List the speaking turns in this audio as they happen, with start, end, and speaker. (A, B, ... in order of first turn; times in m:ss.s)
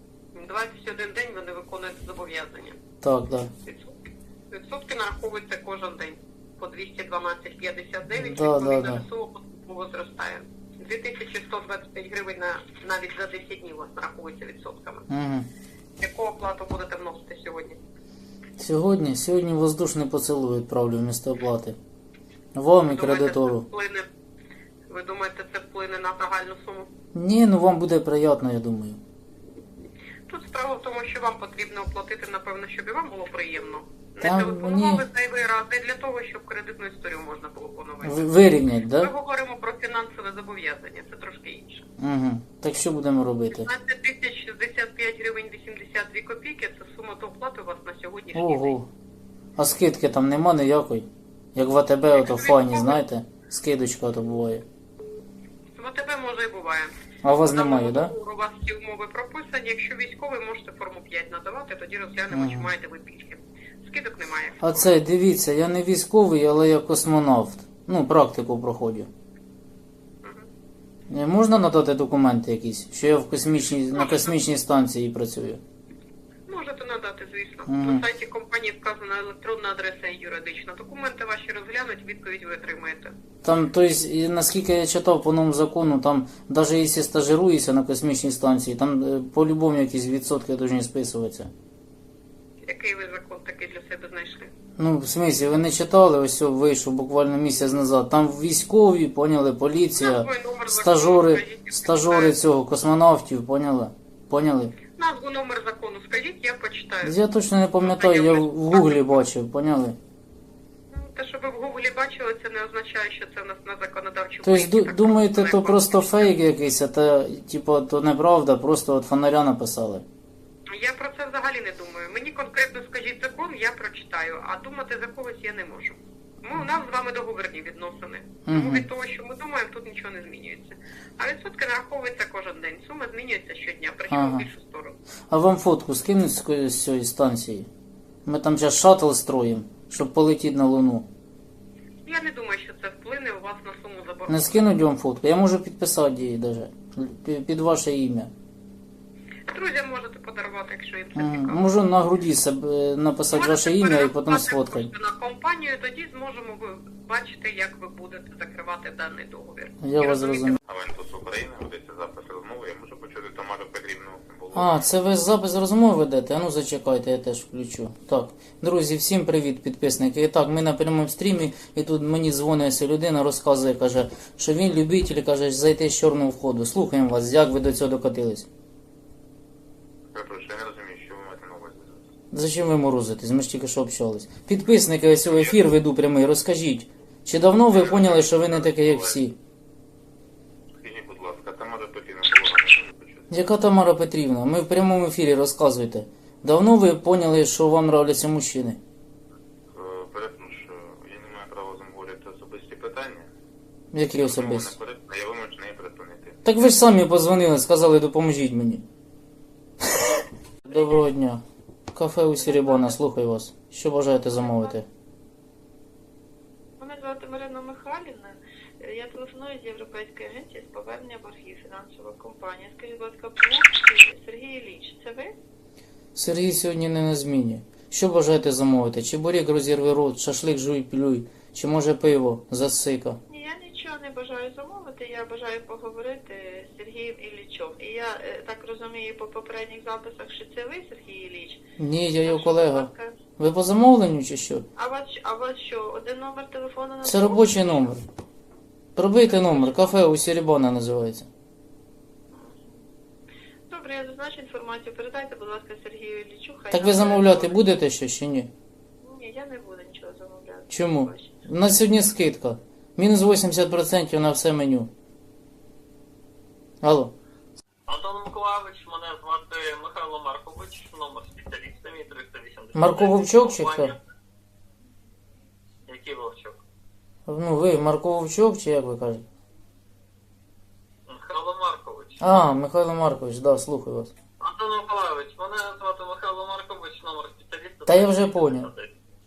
0:00.3-0:02.8 A
0:03.0-0:03.5 B
0:03.6-0:03.9 A
0:04.5-0:15.1 A
0:08.1-0:09.0 B
0:15.1-0:15.5 B
0:16.0-0:17.8 A
0:18.6-0:21.8 B
0:22.5-0:23.6 B
0:22.8-0:24.0 A
0:24.9-0:26.9 A
0:27.1-0:29.0 B
0:30.3-0:38.4 A
0:34.2-0:35.0 B
0:38.0-0:39.1 B
0:38.9-0:41.8 A
0:42.0-0:43.7 B
0:43.5-0:48.7 A
0:48.3-0:48.9 B
0:49.6-0:54.6 B
0:52.1-0:53.0 A
0:55.7-1:05.0 A
0:57.2-0:58.1 B
1:02.3-1:02.7 B
1:04.6-1:09.1 B
1:10.2-1:10.5 A
1:11.1-1:15.6 B
1:13.9-1:14.3 A
1:16.5-1:23.1 A
1:17.7-1:18.0 B
1:23.4-1:31.5 B
1:32.6-1:34.5 A
1:34.8-1:44.8 B
1:40.0-1:42.3 A
1:45.0-1:47.2 A
1:47.0-1:50.0 B
1:47.8-1:49.0 A
1:50.9-1:56.3 A
1:54.4-2:00.0 B
2:00.7-2:15.0 A
2:08.4-2:08.8 B
2:14.1-2:14.5 B
2:15.3-2:17.7 B
2:18.2-2:21.1 B
2:22.0-2:24.8 A
2:24.3-2:28.3 B
2:29.5-2:31.7 A
2:31.1-2:34.9 B
2:33.3-2:40.6 A
2:39.8-2:40.6 B
2:40.7-2:44.8 C
2:44.5-2:58.5 B
3:00.1-3:02.0 C
3:02.3-3:09.4 B
3:07.7-3:09.2 C
3:10.7-3:13.3 C
3:13.3-3:18.8 B
3:19.7-3:23.3 C
3:23.9-3:24.7 B
3:24.2-3:26.5 C
3:26.4-3:28.8 B
3:30.7-3:31.4 B
3:31.9-3:34.8 B
3:32.4-3:33.0 D
3:34.3-3:34.8 D
3:36.8-3:45.3 D
3:46.2-3:53.2 B
3:53.3-4:01.6 D
4:01.8-4:04.6 B
4:02.2-4:03.2 D
4:04.8-4:07.9 D
4:07.0-4:08.0 B
4:09.0-4:11.3 B
4:09.2-4:09.9 D
4:12.3-4:12.8 D
4:13.7-4:17.6 D
4:16.7-4:18.5 B
4:19.0-4:21.3 D
4:20.7-4:24.9 B
4:26.8-4:27.1 B
4:27.9-4:34.0 E
4:32.7-4:33.9 B
4:35.9-4:36.6 E
4:37.3-4:39.2 B
4:41.1-4:42.4 E
4:42.2-4:44.1 B
4:44.4-4:48.9 E
4:47.8-4:48.7 B